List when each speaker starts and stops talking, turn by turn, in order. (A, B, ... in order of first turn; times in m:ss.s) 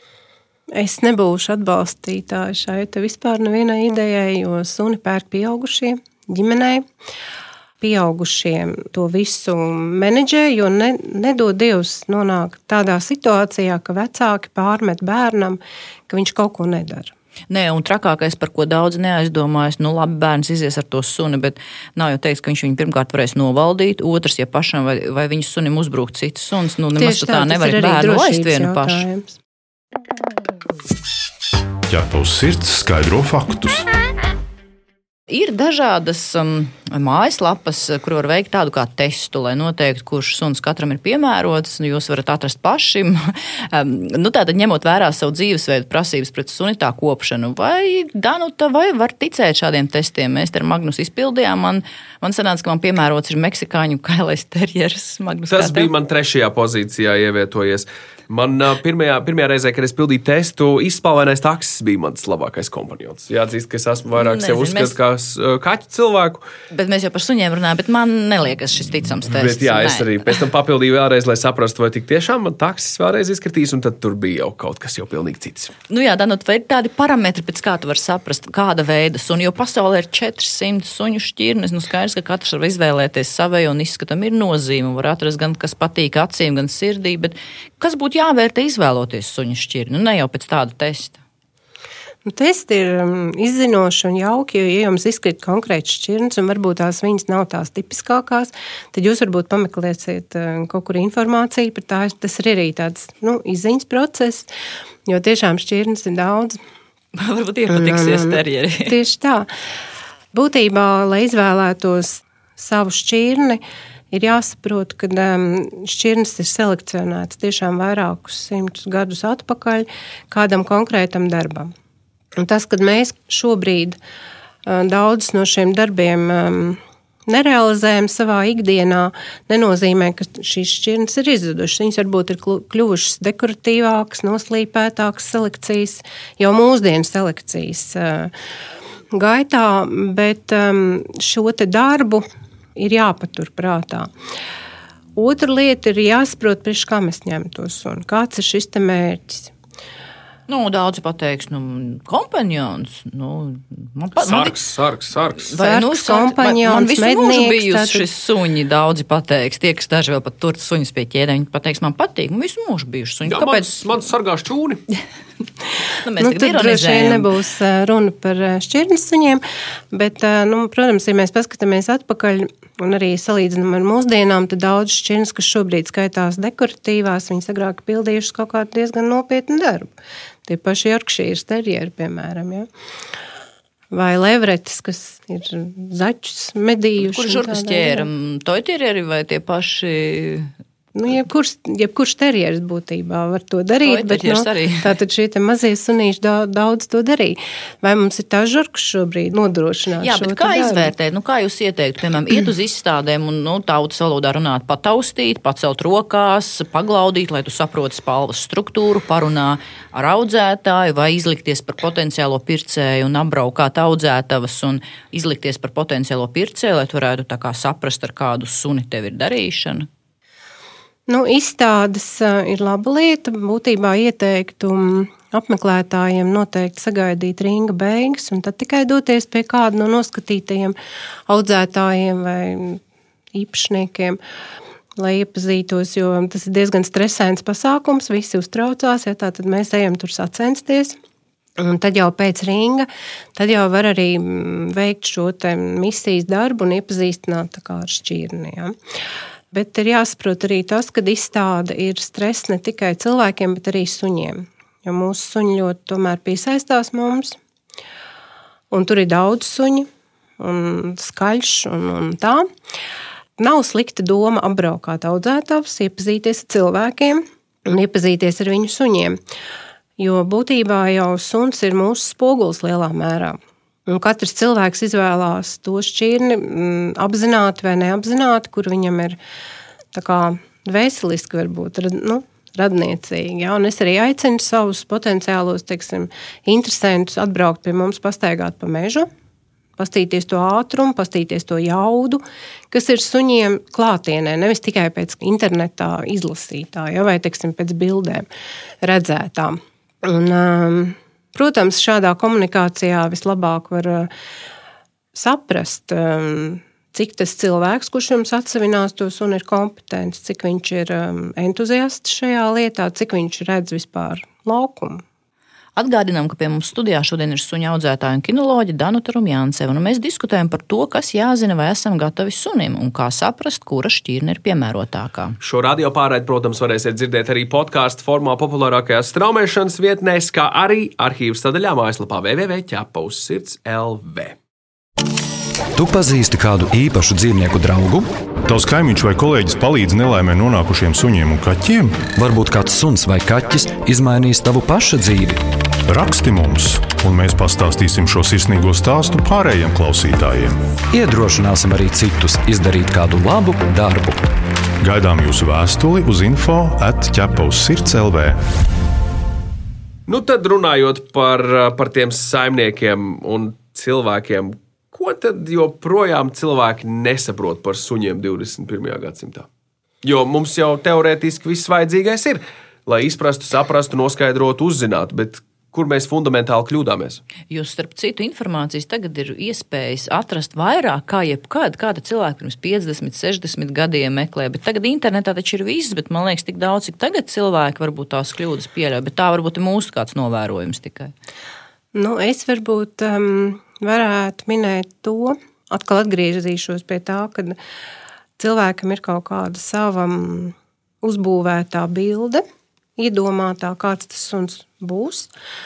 0:00.7-0:06.8 A
0:07.8-0:17.1 A
0:17.5-0:29.0 B
0:27.0-0:29.4 A
0:31.9-0:33.9 C
0:35.3-0:55.9 B
0:55.5-1:06.4 D
1:04.1-1:05.0 B
1:06.7-1:10.3 B
1:09.3-1:15.7 D
1:15.9-1:31.2 B
1:32.2-1:44.5 A
1:45.1-1:46.6 A
1:47.2-1:49.0 B
1:47.7-1:49.5 A
1:50.3-2:01.7 A
2:02.4-2:04.0 A
2:04.6-2:18.3 A
2:19.1-2:22.2 A
2:22.8-2:24.1 A
2:25.2-2:29.5 A
2:30.5-2:34.6 B
2:34.2-2:35.5 D
2:35.4-2:43.8 B
2:35.6-2:38.1 A
2:43.3-2:44.8 D
2:46.0-2:47.3 B
2:46.2-2:59.9 A
3:00.5-3:02.7 A
3:03.9-3:08.1 A
3:07.0-3:10.5 B
3:11.0-3:20.9 A
3:13.8-3:14.9 B
3:20.0-3:39.9 B
3:41.1-3:50.8 A
3:51.3-3:52.8 A
3:53.3-3:54.2 A
3:55.0-4:01.0 A
4:01.6-4:08.8 A
4:09.5-4:17.4 A
4:18.7-4:19.9 A
4:20.4-4:22.5 A
4:23.4-4:29.2 A
4:30.0-4:39.2 A
4:39.9-4:49.1 A
4:49.8-4:58.3 A
4:58.8-5:04.1 A
5:05.1-5:15.0 A
5:15.8-5:25.4 B
5:25.4-5:34.4 D
5:35.8-5:38.1 E
5:38.4-5:42.1 C
5:42.1-5:45.4 E
5:45.9-5:50.6 C
5:50.9-5:54.3 E
5:54.8-5:58.4 C
6:00.1-6:09.5 D
6:10.0-6:17.2 D
6:17.5-6:31.1 B
6:31.9-6:37.6 A
6:38.4-6:42.4 A
6:43.0-6:45.3 A